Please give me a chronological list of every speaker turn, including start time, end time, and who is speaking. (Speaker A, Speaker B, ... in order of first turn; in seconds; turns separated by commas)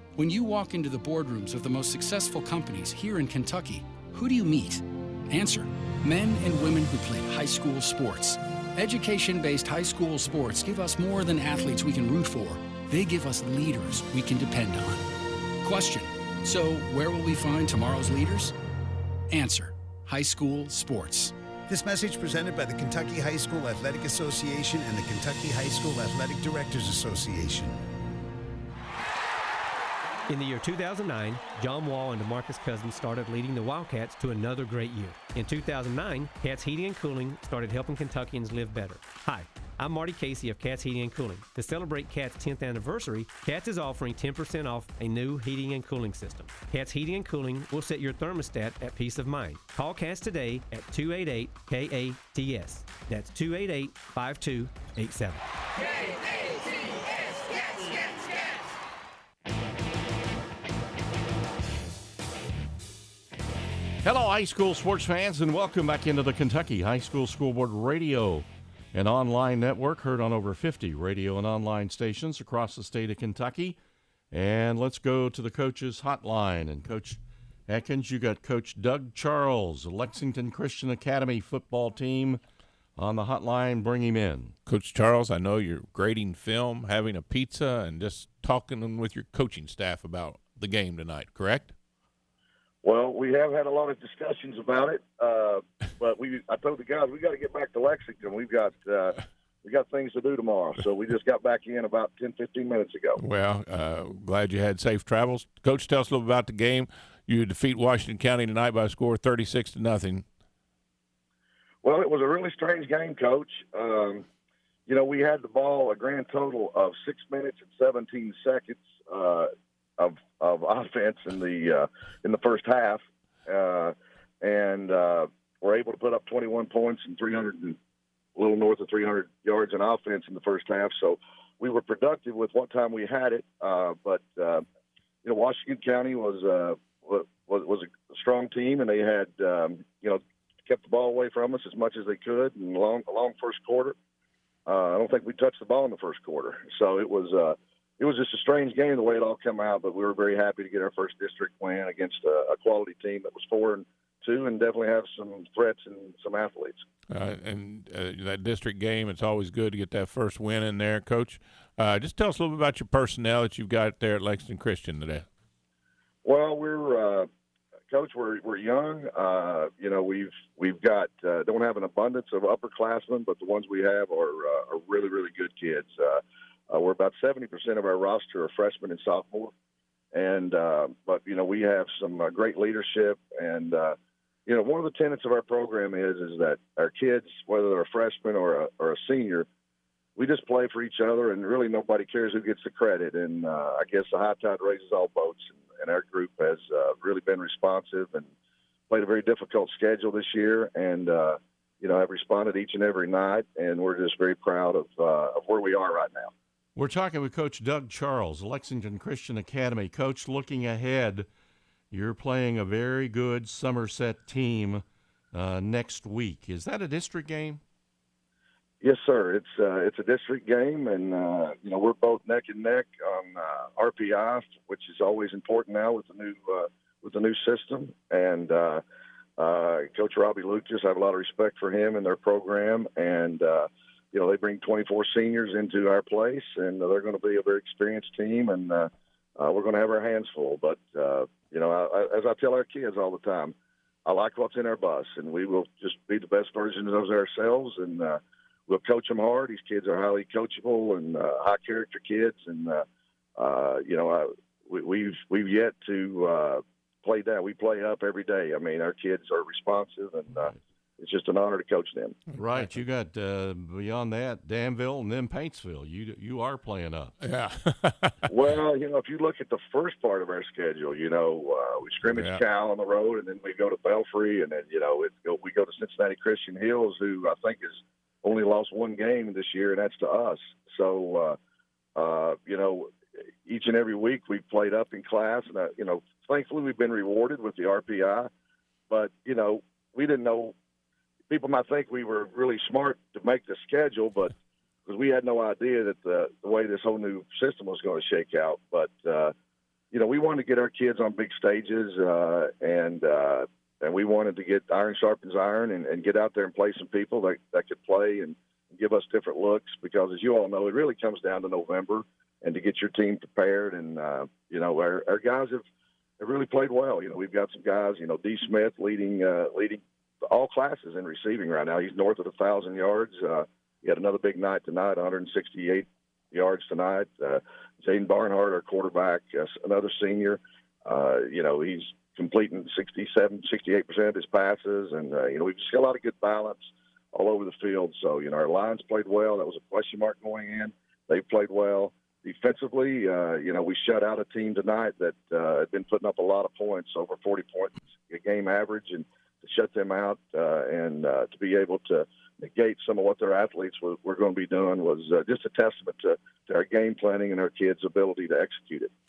Speaker A: 0.1-15.0, Speaker A: 15.6-18.5, Speaker A: 19.3-21.3, Speaker B: 21.7-27.8, Speaker C: 30.3-55.5, Speaker D: 64.0-73.8, Speaker D: 74.3-82.4, Speaker D: 83.0-84.5, Speaker E: 84.7-91.7, Speaker F: 92.8-103.2, Speaker E: 103.2-110.2, Speaker F: 111.8-114.2, Speaker F: 114.9-127.8, Speaker F: 128.3-134.6, Speaker F: 135.2-143.9, Speaker F: 144.7-156.8, Speaker E: 157.1-165.3, Speaker F: 166.2-167.3, Speaker F: 167.9-179.5, Speaker F: 180.1-183.9, Speaker F: 184.5-189.5, Speaker F: 190.2-198.3, Speaker F: 198.9-206.3, Speaker D: 206.7-211.3, Speaker D: 211.9-217.6, Speaker F: 218.8-228.8, Speaker F: 229.4-243.5, Speaker F: 244.1-252.8, Speaker F: 253.4-262.1, Speaker E: 262.3-262.7, Speaker D: 262.4-267.1, Speaker E: 267.2-268.3, Speaker F: 268.3-281.4, Speaker E: 272.0-272.4, Speaker F: 281.9-282.9, Speaker F: 283.4-288.3, Speaker F: 288.9-290.5, Speaker F: 291.3-294.3, Speaker F: 294.9-299.3, Speaker F: 299.9-315.6, Speaker F: 316.2-358.9